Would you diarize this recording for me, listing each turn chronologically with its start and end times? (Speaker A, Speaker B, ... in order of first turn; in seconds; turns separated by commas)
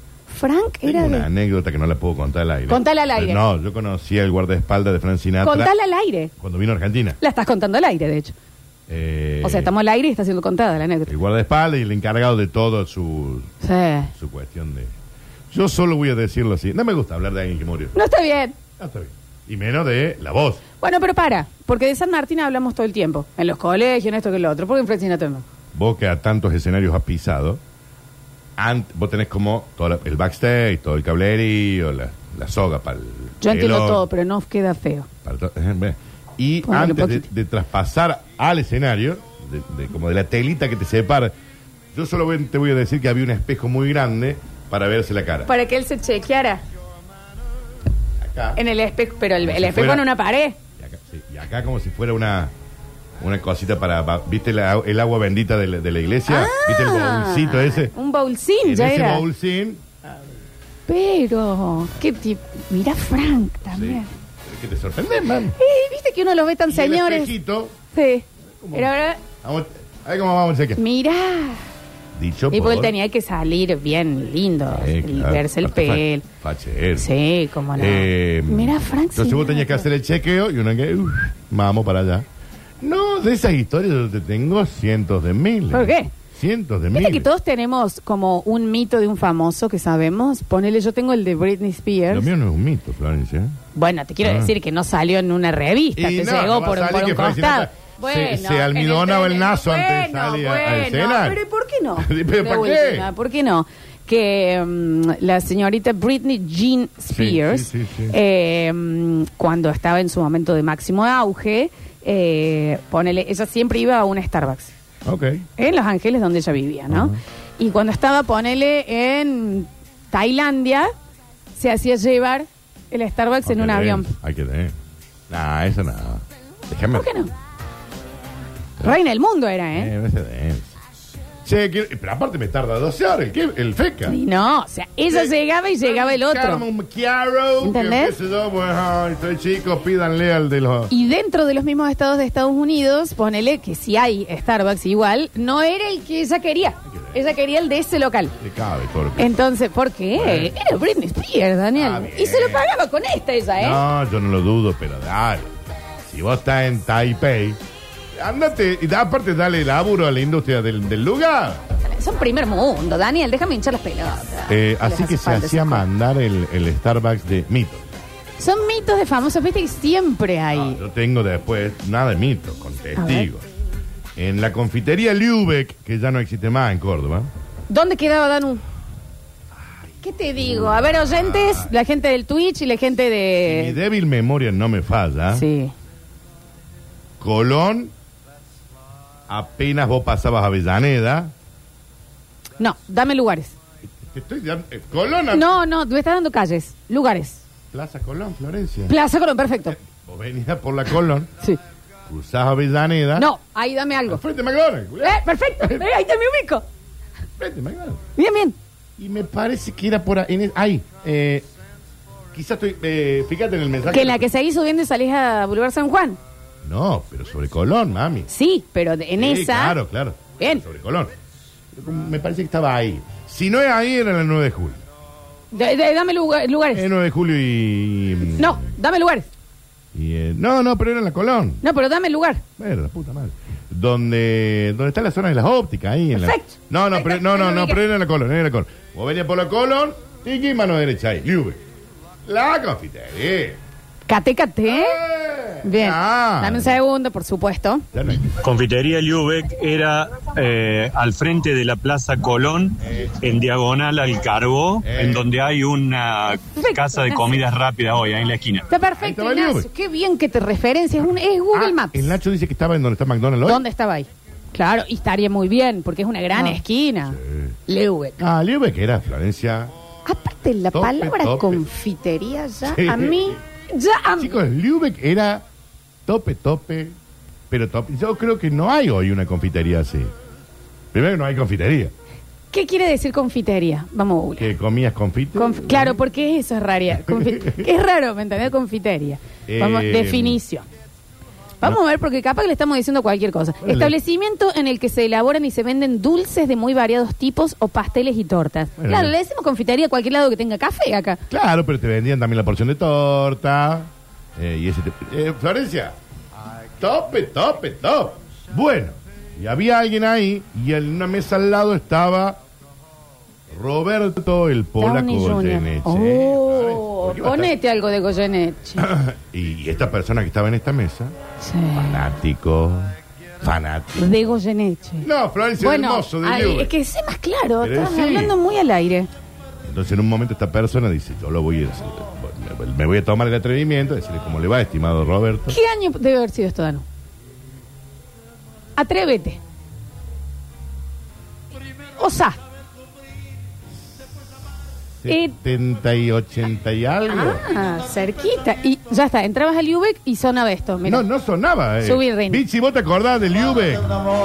Speaker A: 0.3-1.3, Speaker B: 0.8-5.7, Speaker A: 2.7-3.4, Speaker A: 5.4-6.3, Speaker B: 6.4-7.2, Speaker A: 7.2-8.3, Speaker B: 8.9-9.7, Speaker A: 9.4-11.1, Speaker B: 11.1-13.5, Speaker A: 13.6-14.1, Speaker B: 14.1-14.9, Speaker B: 15.5-17.9, Speaker A: 17.9-18.5, Speaker B: 18.8-20.6, Speaker A: 20.8-25.4, Speaker B: 25.7-27.6, Speaker B: 28.6-34.0, Speaker A: 33.4-35.1, Speaker B: 35.2-41.3, Speaker A: 36.6-37.2, Speaker B: 41.9-45.5, Speaker A: 45.5-46.6, Speaker B: 48.2-48.6, Speaker A: 48.5-50.6, Speaker B: 49.4-50.1, Speaker B: 50.8-52.5, Speaker B: 53.2-57.9, Speaker A: 56.3-59.2, Speaker B: 58.6-59.9, Speaker A: 60.9-64.1, Speaker B: 63.7-65.5, Speaker A: 65.5-67.3, Speaker B: 66.7-67.8, Speaker A: 67.9-69.2, Speaker B: 68.5-68.9, Speaker B: 69.4-70.8, Speaker A: 70.8-71.6, Speaker B: 72.2-72.9, Speaker A: 72.5-76.2, Speaker B: 74.7-77.1, Speaker A: 77.0-79.8, Speaker B: 77.8-82.2, Speaker B: 82.8-87.3, Speaker A: 85.7-86.1, Speaker A: 86.9-92.3, Speaker B: 92.1-93.6, Speaker A: 93.7-114.7, Speaker B: 94.2-94.5, Speaker B: 96.0-101.4, Speaker B: 102.0-103.1, Speaker B: 107.1-108.2, Speaker B: 115.0-115.4, Speaker A: 115.6-120.9, Speaker B: 116.9-117.2, Speaker A: 121.5-124.1, Speaker B: 123.4-124.7, Speaker B: 125.3-127.1, Speaker A: 126.9-127.3, Speaker A: 128.8-129.9, Speaker B: 129.7-130.7, Speaker B: 131.4-134.2, Speaker A: 134.1-136.6, Speaker B: 135.1-140.9, Speaker A: 137.6-138.2, Speaker A: 140.9-148.3, Speaker B: 146.9-147.2, Speaker B: 148.4-149.4, Speaker A: 149.2-153.8, Speaker B: 150.1-150.6, Speaker B: 151.7-152.7, Speaker B: 153.6-157.6, Speaker B: 158.1-161.6, Speaker A: 161.8-165.8, Speaker B: 164.5-167.9, Speaker A: 168.4-170.8, Speaker B: 170.5-173.5, Speaker A: 173.0-173.3, Speaker B: 174.2-177.3, Speaker A: 177.7-178.6, Speaker A: 180.0-183.8, Speaker B: 180.3-181.7, Speaker B: 183.4-185.4, Speaker A: 185.3-185.7, Speaker B: 187.2-187.9, Speaker B: 189.3-191.3, Speaker A: 192.6-193.5, Speaker B: 193.9-195.6, Speaker A: 195.3-197.4, Speaker B: 197.7-198.9, Speaker A: 198.9-199.8, Speaker B: 199.7-201.3, Speaker B: 202.1-203.3, Speaker A: 203.2-204.2, Speaker B: 204.1-205.9, Speaker A: 205.0-206.7, Speaker B: 207.4-208.0, Speaker A: 208.2-208.6, Speaker B: 209.0-211.4, Speaker B: 212.3-214.2, Speaker A: 213.9-216.2, Speaker B: 216.6-218.3, Speaker A: 218.3-219.8, Speaker B: 219.2-221.1, Speaker B: 221.7-224.8, Speaker A: 225.5-226.8, Speaker B: 226.7-228.6, Speaker A: 228.2-229.3, Speaker B: 229.9-231.6, Speaker A: 231.6-232.4, Speaker B: 232.6-241.6, Speaker A: 236.1-237.8, Speaker B: 242.2-243.6, Speaker A: 244.1-245.0, Speaker B: 244.7-246.7, Speaker A: 245.6-247.8, Speaker B: 247.9-248.3, Speaker C: 248.3-258.6, Speaker B: 252.9-253.1, Speaker B: 254.8-255.2, Speaker A: 256.6-257.2, Speaker A: 258.7-262.1, Speaker B: 259.0-259.7, Speaker B: 261.5-263.6, Speaker A: 263.4-268.2, Speaker B: 266.3-267.6, Speaker B: 268.2-269.7, Speaker A: 270.1-274.4, Speaker B: 270.7-271.7, Speaker B: 272.6-273.4, Speaker B: 274.2-275.4, Speaker B: 276.1-276.9, Speaker B: 277.5-280.1, Speaker B: 280.9-281.9, Speaker A: 282.5-284.5, Speaker B: 284.4-286.0, Speaker A: 285.4-290.6, Speaker B: 286.9-287.7, Speaker B: 289.5-290.4, Speaker A: 291.6-301.2, Speaker B: 293.6-293.9, Speaker B: 298.8-299.1, Speaker B: 301.3-305.9, Speaker B: 306.8-312.4, Speaker B: 313.5-317.5, Speaker A: 314.8-318.9, Speaker B: 318.8-321.1, Speaker A: 321.4-322.1, Speaker B: 321.7-324.3, Speaker A: 324.0-325.1, Speaker B: 325.0-326.7, Speaker A: 325.6-329.1, Speaker B: 327.6-328.4, Speaker B: 329.6-335.6, Speaker A: 335.5-336.8, Speaker A: 338.8-339.4, Speaker A: 342.0-342.4, Speaker B: 345.0-347.4, Speaker A: 345.1-345.4, Speaker A: 347.1-351.0, Speaker B: 350.8-353.9, Speaker A: 351.8-352.4